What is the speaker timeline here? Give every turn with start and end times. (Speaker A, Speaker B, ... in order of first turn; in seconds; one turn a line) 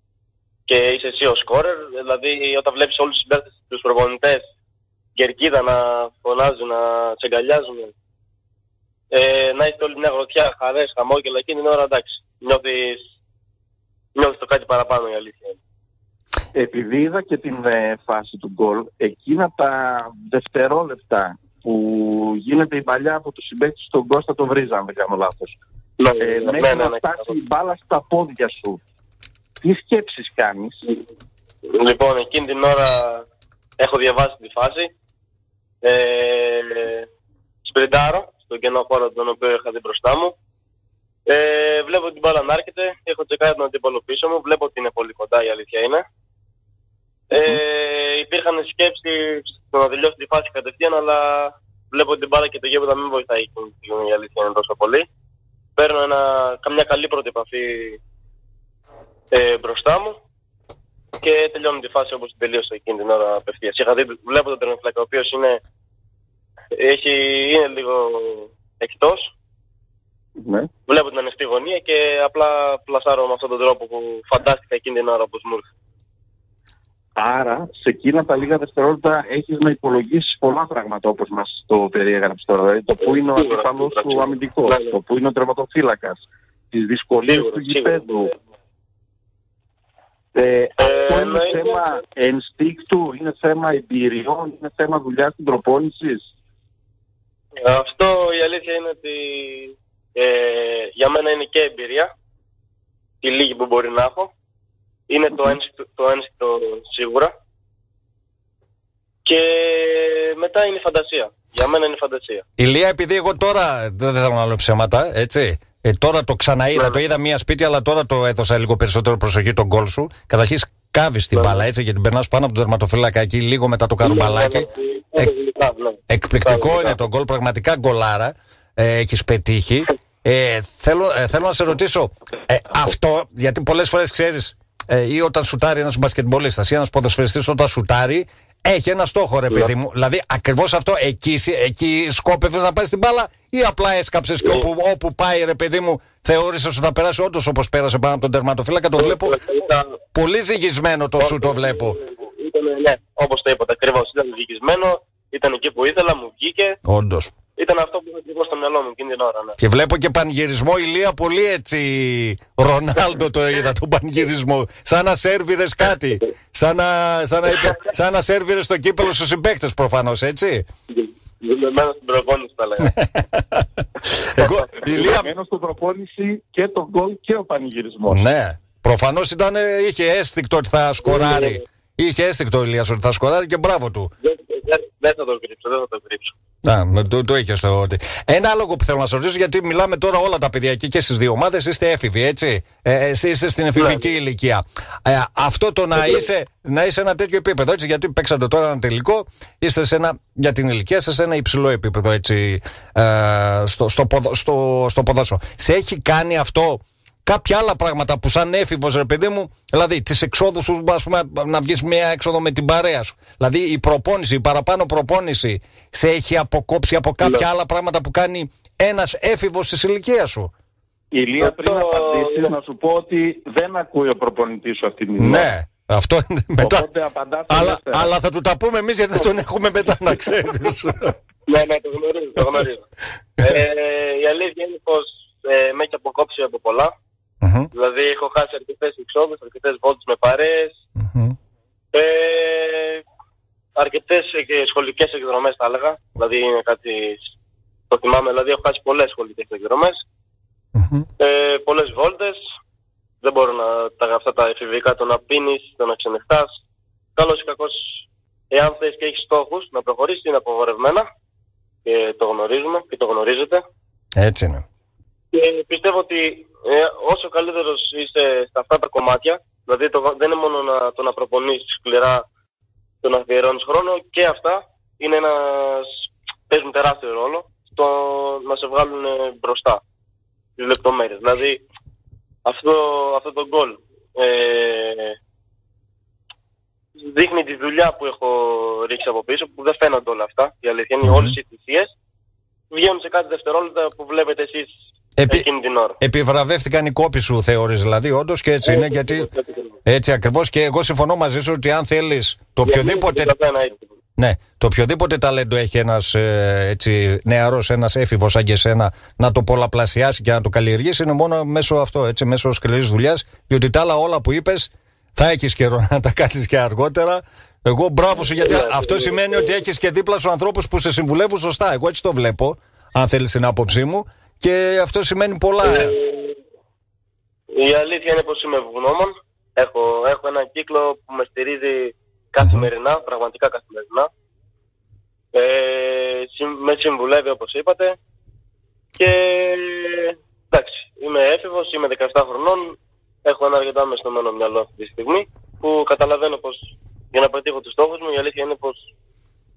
Speaker A: 0.7-4.4
Speaker A: 5.2-7.9
Speaker A: 9.1-13.0
Speaker A: 14.1-15.6
Speaker B: 16.5-25.6
Speaker A: 26.0-27.3
Speaker B: 26.2-28.8
Speaker B: 29.6-30.8
Speaker A: 31.7-33.2
Speaker A: 33.8-34.9
Speaker A: 35.8-37.0
Speaker A: 37.6-40.3
Speaker A: 41.3-46.0
Speaker A: 47.3-55.0
Speaker A: 55.8-58.0
Speaker A: 59.3-60.1
Speaker A: 61.2-65.6
Speaker A: 66.7-69.3
Speaker B: 70.4-70.7
Speaker A: 70.9-75.6
Speaker B: 77.2-88.3
Speaker A: 83.0-84.9
Speaker A: 87.3-88.3
Speaker B: 90.3-96.3
Speaker A: 90.8-91.8
Speaker A: 97.6-102.1
Speaker A: 103.2-104.3
Speaker A: 105.1-107.3
Speaker A: 109.2-112.4
Speaker C: 112.6-125.3
Speaker A: 116.7-117.0
Speaker A: 121.3-121.6
Speaker A: 124.0-127.0
Speaker C: 126.1-149.3
Speaker A: 149.0-150.0
Speaker C: 150.1-152.0
Speaker A: 151.2-156.8
Speaker C: 156.8-157.3
Speaker A: 157.6-159.6
Speaker C: 159.6-170.7
Speaker A: 170.9-172.9
Speaker C: 172.8-175.3
Speaker B: 174.8-178.2
Speaker C: 178.1-184.1
Speaker A: 181.0-181.6
Speaker A: 184.2-186.3
Speaker C: 186.6-220.5
Speaker A: 193.8-194.1
Speaker A: 196.0-196.2
Speaker B: 221.1-225.5
Speaker A: 221.4-222.5
Speaker C: 225.2-226.8
Speaker B: 226.6-228.1
Speaker C: 227.5-231.2
Speaker A: 231.5-232.8
Speaker A: 233.4-236.9
Speaker C: 237.4-237.7
Speaker A: 237.7-240.8
Speaker C: 241.0-241.3
Speaker A: 241.9-243.0
Speaker A: 243.8-247.3
Speaker A: 247.9-250.0
Speaker C: 250.8-251.1
Speaker A: 251.2-252.4
Speaker A: 253.2-256.6
Speaker A: 257.1-261.1
Speaker A: 261.8-263.6
Speaker C: 264.2-264.6
Speaker A: 265.3-272.2
Speaker A: 273.0-279.8
Speaker A: 280.6-281.6
Speaker A: 282.4-285.1
Speaker A: 287.0-291.9
Speaker C: 291.0-291.4
Speaker A: 292.7-294.7
Speaker C: 295.2-295.5
Speaker A: 295.3-296.0
Speaker C: 296.0-299.3
Speaker A: 298.6-299.8
Speaker C: 299.9-303.3
Speaker A: 302.6-303.9
Speaker C: 304.2-325.9
Speaker A: 318.1-319.5
Speaker A: 325.6-326.4
Speaker A: 327.5-334.1
Speaker C: 332.4-332.7
Speaker A: 335.3-338.0
Speaker A: 339.0-348.9